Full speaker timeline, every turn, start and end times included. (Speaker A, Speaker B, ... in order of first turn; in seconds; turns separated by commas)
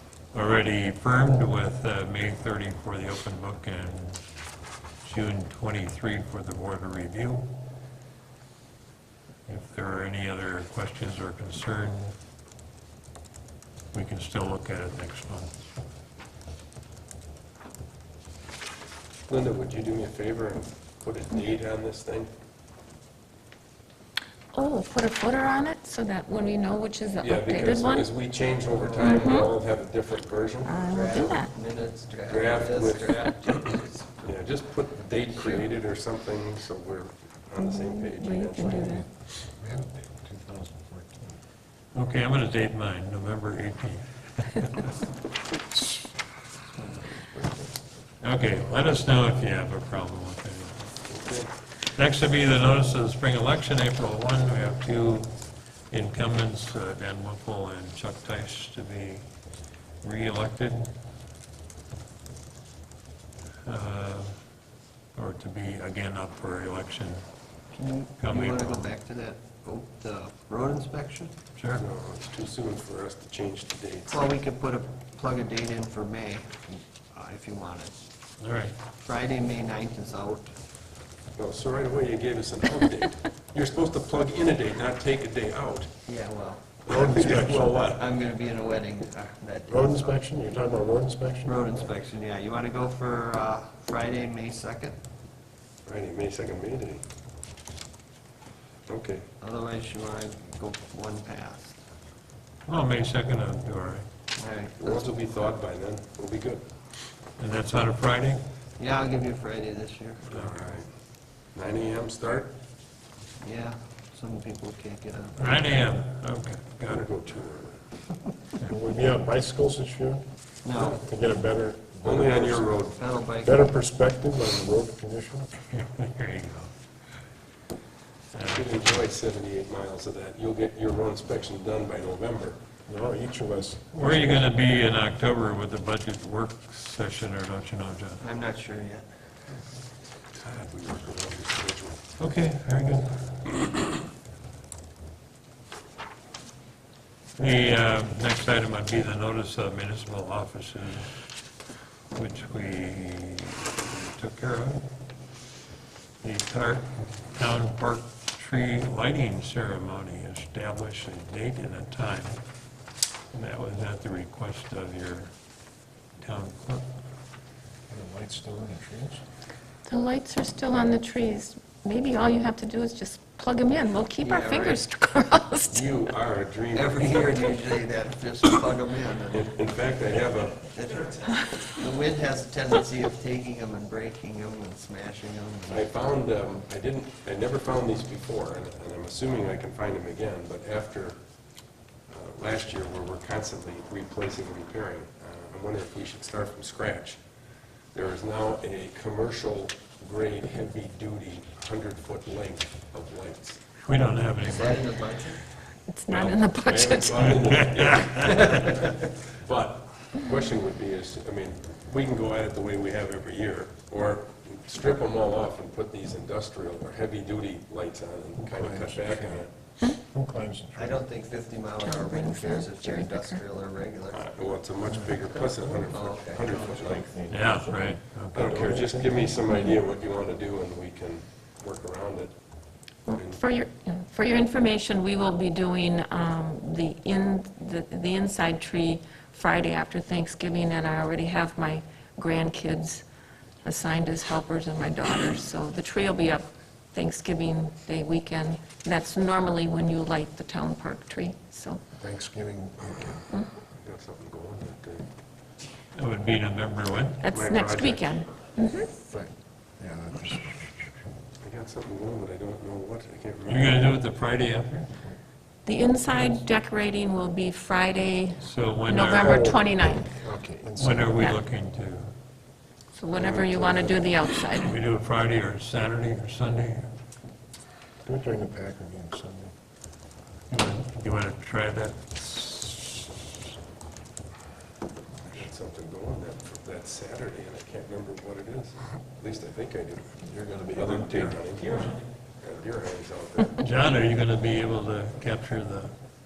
Speaker A: 0.3-4.2, Speaker A: 5.0-7.5, Speaker A: 9.5-12.2, Speaker A: 13.9-15.5, Speaker B: 19.3-22.3, Speaker C: 24.5-28.1, Speaker B: 27.2-30.9, Speaker D: 28.7-29.6, Speaker C: 29.0-29.5, Speaker C: 30.7-31.5, Speaker D: 30.8-34.4, Speaker B: 32.3-39.1, Speaker C: 37.6-39.1, Speaker E: 39.6-41.4, Speaker A: 42.0-44.8, Speaker D: 47.2-47.7, Speaker A: 48.2-50.9, Speaker B: 51.1-51.5, Speaker A: 51.9-55.3, Speaker A: 55.9-59.2, Speaker A: 60.0-60.9, Speaker A: 63.7-64.3, Speaker A: 65.2-67.2, Speaker D: 67.7-71.3, Speaker A: 68.2-68.9, Speaker A: 71.6-71.8, Speaker B: 71.7-74.3, Speaker D: 74.1-78.0, Speaker A: 78.4-78.8, Speaker D: 79.0-80.5, Speaker B: 81.4-85.9, Speaker D: 86.1-90.2, Speaker B: 86.9-88.1, Speaker E: 86.9-87.7, Speaker E: 89.7-91.9, Speaker D: 91.5-95.0, Speaker B: 95.9-97.0, Speaker B: 98.9-99.3, Speaker D: 99.4-101.8, Speaker A: 102.7-104.0, Speaker D: 104.4-105.1, Speaker B: 104.8-106.7, Speaker A: 107.4-108.4, Speaker D: 108.8-110.3, Speaker B: 110.2-110.9, Speaker B: 111.5-112.5, Speaker D: 113.4-115.4, Speaker A: 115.4-117.0, Speaker B: 116.9-117.8, Speaker E: 118.6-120.2, Speaker D: 120.7-121.0, Speaker B: 120.8-121.0, Speaker E: 120.9-122.7, Speaker B: 122.0-123.0, Speaker D: 122.9-123.7, Speaker E: 123.4-125.5, Speaker A: 125.7-126.7, Speaker A: 128.3-128.7, Speaker B: 128.4-132.6, Speaker E: 132.9-134.5, Speaker A: 133.9-138.2, Speaker D: 138.2-139.1, Speaker B: 140.3-142.0, Speaker A: 142.2-143.1, Speaker A: 147.4-151.2, Speaker A: 152.1-154.8, Speaker A: 156.2-162.4, Speaker A: 163.3-165.3, Speaker A: 166.2-166.8, Speaker E: 167.9-169.2, Speaker C: 169.9-175.9, Speaker D: 174.2-174.8, Speaker B: 175.7-177.7, Speaker D: 176.7-179.6, Speaker B: 179.3-180.7, Speaker D: 180.6-186.0, Speaker B: 185.7-191.2, Speaker B: 192.1-197.2, Speaker B: 197.9-203.6, Speaker A: 203.8-205.2, Speaker D: 204.4-205.4, Speaker C: 205.9-207.6, Speaker B: 206.1-219.5, Speaker A: 207.1-208.6, Speaker D: 208.1-209.0, Speaker E: 218.4-221.0, Speaker D: 220.8-224.3, Speaker C: 221.8-223.4, Speaker B: 224.1-227.1, Speaker D: 225.9-227.1, Speaker E: 226.4-229.4, Speaker A: 227.3-228.4, Speaker B: 228.3-232.3, Speaker C: 233.1-243.0, Speaker B: 233.1-233.4, Speaker C: 243.6-251.8, Speaker E: 252.0-253.2, Speaker B: 253.8-255.1, Speaker A: 255.9-257.2, Speaker C: 257.2-258.9, Speaker B: 257.3-258.2, Speaker E: 258.9-260.9, Speaker B: 261.4-263.9, Speaker A: 263.5-264.9, Speaker C: 265.7-270.1, Speaker A: 268.4-269.6, Speaker E: 269.0-271.2, Speaker A: 270.8-272.1, Speaker C: 272.9-274.8, Speaker B: 273.1-274.0, Speaker A: 274.6-276.9, Speaker E: 278.1-279.5, Speaker A: 280.5-283.1, Speaker B: 285.3-290.1, Speaker E: 290.2-291.4, Speaker B: 290.7-293.6, Speaker A: 293.6-295.9